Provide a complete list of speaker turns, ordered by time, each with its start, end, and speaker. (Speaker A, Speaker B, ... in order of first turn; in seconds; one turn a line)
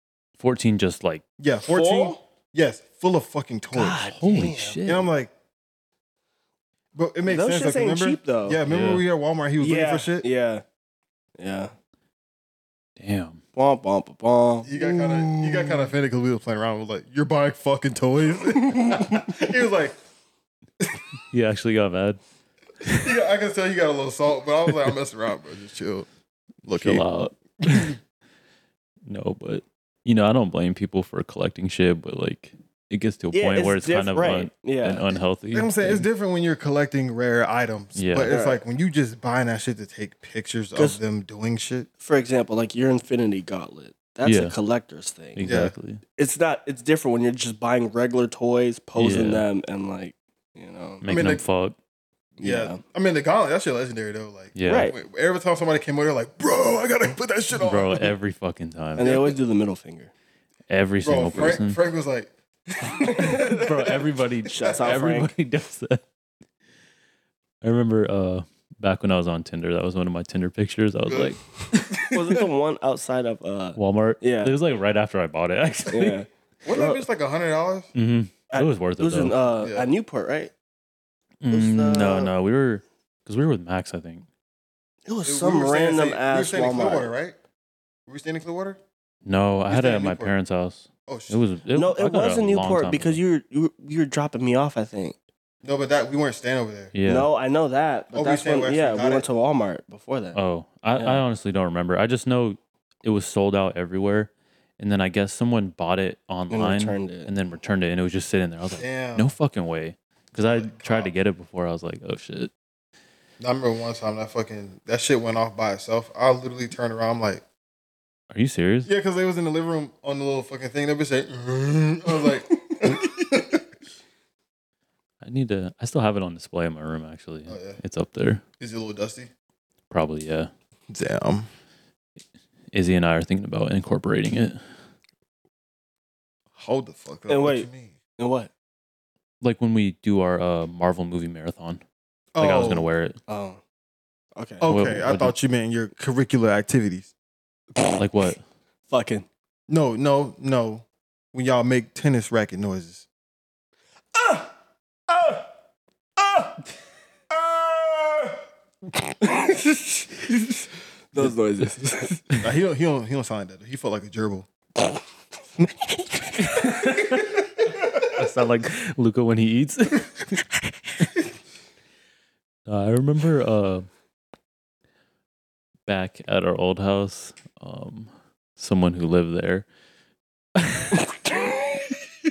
Speaker A: 0.4-1.2
Speaker B: 1.4-5.3
Speaker C: 1.6-2.2
Speaker A: 3.8-5.1
Speaker C: 4.0-4.8
Speaker B: 6.9-10.3
Speaker C: 7.2-8.6
Speaker A: 8.7-9.0
Speaker C: 9.6-10.6
Speaker C: 11.4-11.7
Speaker A: 13.0-13.4
Speaker C: 13.5-15.9
Speaker B: 14.7-19.9
Speaker C: 18.7-19.4
Speaker A: 21.3-22.2
Speaker A: 22.8-23.2
Speaker B: 23.0-26.1
Speaker B: 26.6-27.1
Speaker A: 26.7-28.0
Speaker B: 27.6-27.9
Speaker A: 29.0-36.0
Speaker C: 33.3-35.1
Speaker B: 35.5-41.9
Speaker A: 37.9-38.3
Speaker C: 38.2-38.6
Speaker C: 42.0-45.4
Speaker A: 44.2-44.5
Speaker A: 45.3-46.0
Speaker B: 45.4-45.7
Speaker C: 46.2-51.0
Speaker A: 49.0-49.4
Speaker A: 51.0-51.8
Speaker B: 51.0-51.4
Speaker C: 52.4-52.8
Speaker B: 52.4-58.1
Speaker A: 54.5-54.9
Speaker C: 54.6-55.0
Speaker A: 57.5-59.2
Speaker C: 59.0-60.1
Speaker B: 59.0-59.3
Speaker A: 60.7-61.8
Speaker B: 61.0-63.9
Speaker C: 62.9-65.3
Speaker A: 63.1-66.0
Speaker A: 67.6-71.4
Speaker B: 71.0-72.4
Speaker C: 72.1-74.5
Speaker A: 73.8-76.2
Speaker C: 75.9-77.0
Speaker B: 76.6-77.9
Speaker A: 77.9-79.4
Speaker C: 78.5-80.5
Speaker B: 79.6-79.9
Speaker A: 81.4-84.3
Speaker C: 81.5-82.3
Speaker C: 85.0-87.1
Speaker B: 85.2-87.3
Speaker B: 88.1-88.8
Speaker A: 89.2-93.2
Speaker B: 89.7-90.3
Speaker B: 91.1-91.4
Speaker C: 91.7-95.2
Speaker B: 95.6-96.9
Speaker A: 96.9-97.3
Speaker C: 97.0-100.4
Speaker B: 98.1-99.2
Speaker A: 100.3-112.5
Speaker C: 100.9-101.2
Speaker C: 106.5-107.3
Speaker B: 108.8-109.3
Speaker B: 110.3-111.1
Speaker B: 113.4-117.4
Speaker A: 118.3-118.9
Speaker B: 118.8-123.6
Speaker A: 125.2-128.4
Speaker B: 127.5-127.8
Speaker B: 128.6-129.3
Speaker A: 129.9-130.5
Speaker B: 130.9-131.5
Speaker A: 132.7-134.6
Speaker B: 136.5-137.9
Speaker C: 137.3-138.5
Speaker A: 139.4-141.8
Speaker B: 142.3-142.9
Speaker A: 142.4-143.2
Speaker C: 143.3-143.6
Speaker C: 144.3-144.7
Speaker B: 144.6-147.1
Speaker A: 144.7-145.3
Speaker A: 147.9-148.4
Speaker C: 148.9-149.2
Speaker B: 149.7-153.1
Speaker C: 154.1-154.5
Speaker C: 155.1-155.5
Speaker C: 156.2-156.6
Speaker C: 157.3-158.4
Speaker C: 159.1-162.2
Speaker B: 162.4-164.5
Speaker A: 166.4-167.5
Speaker A: 168.1-171.0
Speaker A: 172.7-173.9
Speaker A: 175.8-179.7
Speaker A: 180.6-181.1